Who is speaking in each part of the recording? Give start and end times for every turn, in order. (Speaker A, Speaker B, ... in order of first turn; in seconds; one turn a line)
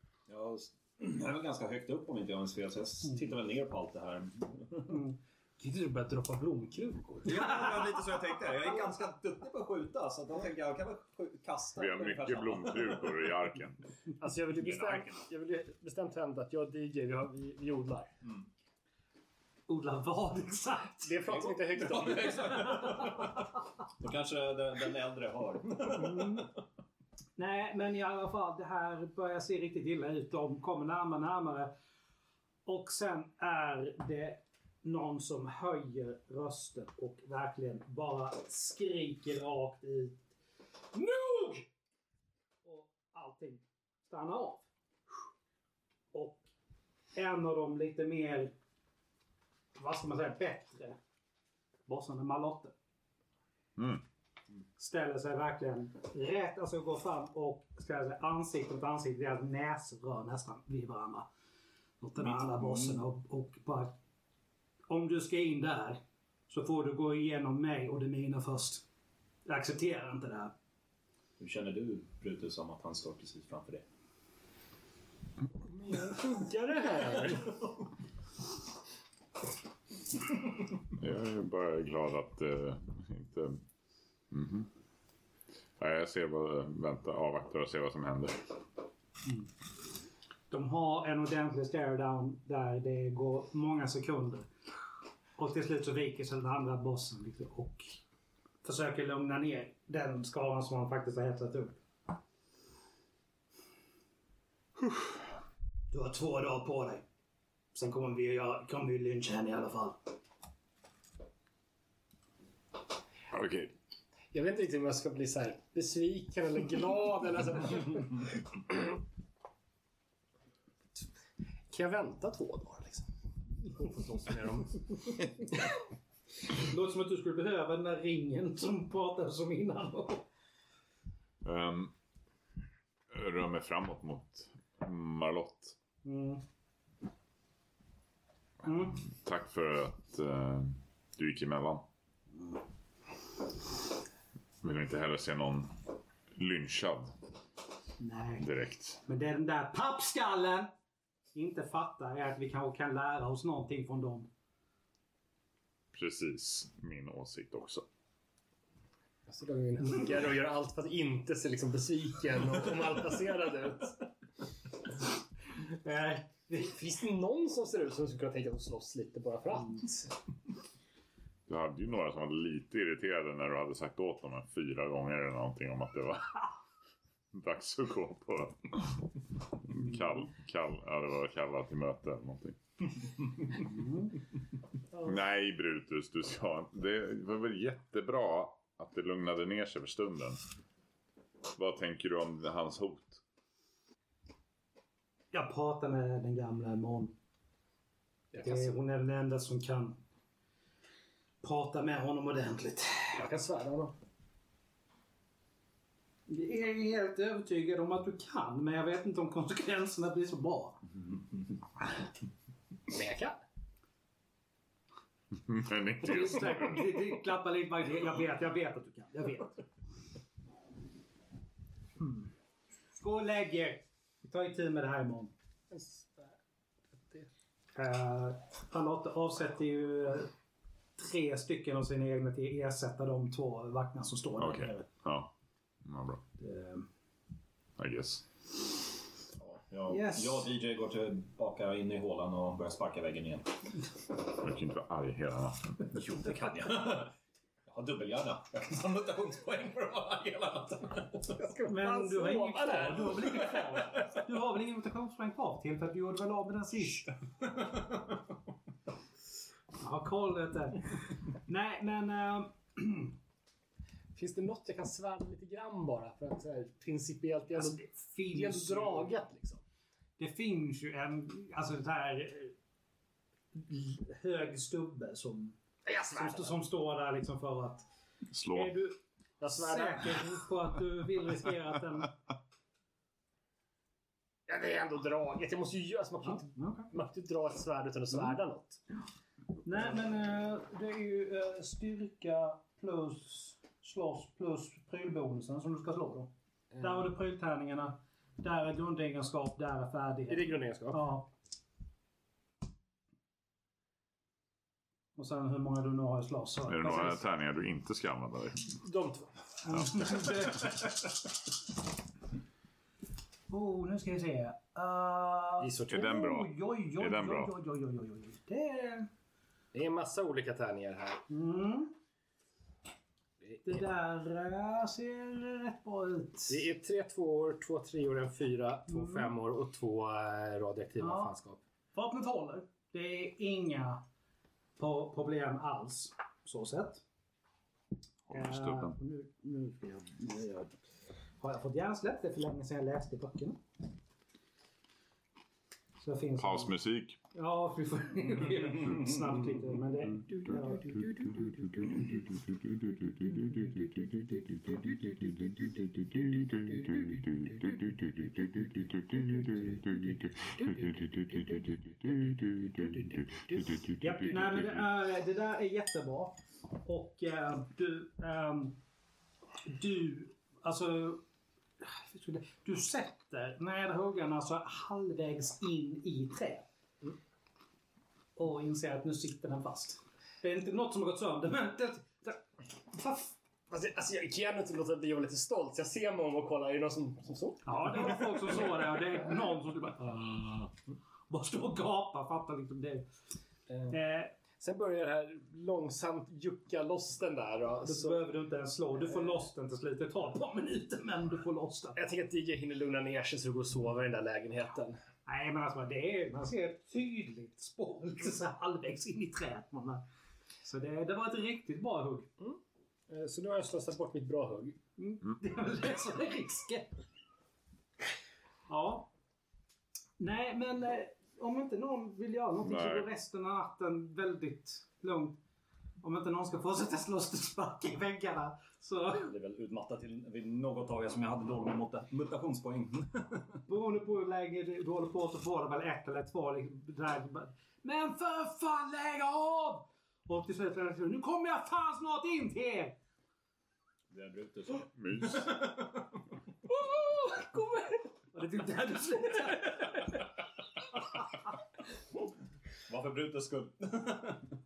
Speaker A: 0.3-5.0
Speaker B: 4.9-8.0
Speaker A: 7.2-13.2
Speaker C: 11.8-13.8
Speaker D: 14.2-18.1
Speaker A: 14.6-15.2
Speaker B: 19.7-21.5
Speaker D: 21.0-23.0
Speaker A: 22.1-23.4
Speaker A: 24.0-26.5
Speaker B: 25.9-26.5
Speaker B: 27.4-31.7
Speaker B: 32.6-40.2
Speaker B: 40.9-41.7
Speaker B: 42.6-44.6
Speaker B: 46.1-46.5
Speaker B: 47.1-48.5
Speaker B: 49.8-51.0
Speaker B: 51.9-52.7
Speaker C: 53.8-54.0
Speaker B: 54.8-61.3
Speaker B: 62.0-63.9
Speaker A: 62.3-63.0
Speaker B: 64.9-68.8
Speaker B: 69.5-70.5
Speaker A: 71.4-73.8
Speaker D: 75.7-77.6
Speaker C: 80.9-83.6
Speaker C: 84.3-84.7
Speaker C: 85.8-88.5
Speaker B: 90.5-94.5
Speaker B: 95.4-98.0
Speaker B: 98.6-101.8
Speaker B: 105.9-107.0
Speaker B: 107.7-110.0
Speaker C: 113.3-113.7
Speaker D: 114.3-118.6
Speaker D: 121.7-123.1
Speaker D: 123.7-125.2
Speaker B: 126.5-130.2
Speaker C: 131.4-131.9
Speaker C: 133.1-135.8
Speaker B: 136.0-136.4
Speaker B: 138.6-139.0
Speaker C: 138.9-141.8
Speaker C: 144.6-145.8
Speaker C: 146.3-147.1
Speaker B: 148.0-148.5
Speaker C: 148.4-149.0
Speaker B: 149.0-150.7
Speaker B: 151.3-154.3
Speaker C: 155.9-157.8
Speaker D: 159.3-164.1
Speaker B: 165.7-166.6
Speaker D: 166.5-170.1
Speaker C: 171.5-176.4
Speaker C: 177.3-182.6
Speaker B: 183.6-184.1
Speaker C: 185.0-190.4
Speaker C: 191.5-193.2
Speaker B: 195.3-197.1
Speaker D: 198.3-198.7
Speaker B: 198.4-200.0
Speaker B: 201.4-203.2
Speaker D: 203.1-203.9
Speaker B: 206.3-210.8
Speaker D: 212.9-213.4
Speaker C: 215.3-216.8
Speaker B: 216.0-219.6
Speaker B: 222.0-222.3
Speaker B: 223.0-225.3
Speaker D: 225.7-226.3
Speaker D: 226.9-227.3
Speaker B: 227.7-230.3
Speaker B: 231.0-234.9
Speaker C: 234.4-235.3
Speaker C: 235.8-236.2
Speaker B: 236.4-236.9
Speaker C: 237.8-238.2
Speaker A: 239.4-243.5
Speaker B: 239.9-240.5
Speaker C: 244.3-245.8
Speaker A: 245.9-247.1
Speaker A: 247.7-251.4
Speaker D: 251.4-253.9
Speaker B: 251.7-257.1
Speaker B: 259.8-263.1
Speaker D: 264.1-269.6
Speaker B: 267.5-269.2
Speaker B: 270.2-272.5
Speaker B: 273.5-275.6
Speaker D: 275.8-276.5
Speaker B: 276.1-277.8
Speaker C: 278.3-278.7
Speaker B: 278.5-279.0
Speaker D: 279.4-280.4
Speaker B: 279.5-282.1
Speaker D: 284.5-288.8
Speaker B: 286.2-286.9
Speaker B: 289.6-301.3
Speaker D: 300.3-301.0
Speaker B: 305.1-307.2
Speaker C: 306.7-308.8
Speaker D: 308.8-309.3
Speaker B: 309.6-310.9
Speaker B: 313.5-319.1
Speaker D: 315.6-316.1
Speaker C: 315.9-317.5
Speaker D: 319.7-321.2
Speaker B: 321.3-321.9
Speaker B: 323.6-326.6
Speaker D: 326.5-331.6
Speaker B: 328.9-329.3
Speaker B: 331.0-331.3
Speaker B: 331.9-334.0
Speaker B: 334.8-337.0
Speaker C: 338.3-338.9
Speaker B: 338.3-340.7
Speaker B: 341.4-343.6
Speaker B: 346.0-346.7
Speaker C: 346.4-347.2
Speaker B: 347.3-352.3
Speaker B: 353.2-354.7
Speaker D: 359.5-363.7
Speaker C: 363.9-364.8
Speaker B: 363.9-368.8
Speaker B: 369.6-371.2
Speaker B: 371.8-376.6
Speaker B: 378.4-383.3
Speaker D: 383.7-388.7
Speaker B: 387.6-390.6
Speaker B: 391.3-393.1
Speaker D: 393.7-394.0
Speaker B: 393.9-394.3
Speaker D: 394.6-398.2
Speaker B: 397.8-402.1
Speaker D: 401.9-405.0
Speaker B: 405.2-410.0
Speaker B: 410.6-412.3
Speaker D: 413.1-414.8
Speaker B: 415.0-416.9
Speaker B: 418.7-419.1
Speaker B: 420.2-425.4
Speaker C: 422.6-423.1
Speaker B: 426.0-429.3
Speaker A: 429.2-433.6
Speaker B: 433.7-443.0
Speaker A: 444.1-446.0
Speaker C: 444.9-445.6
Speaker D: 446.7-448.1
Speaker B: 448.3-450.2
Speaker A: 452.9-454.5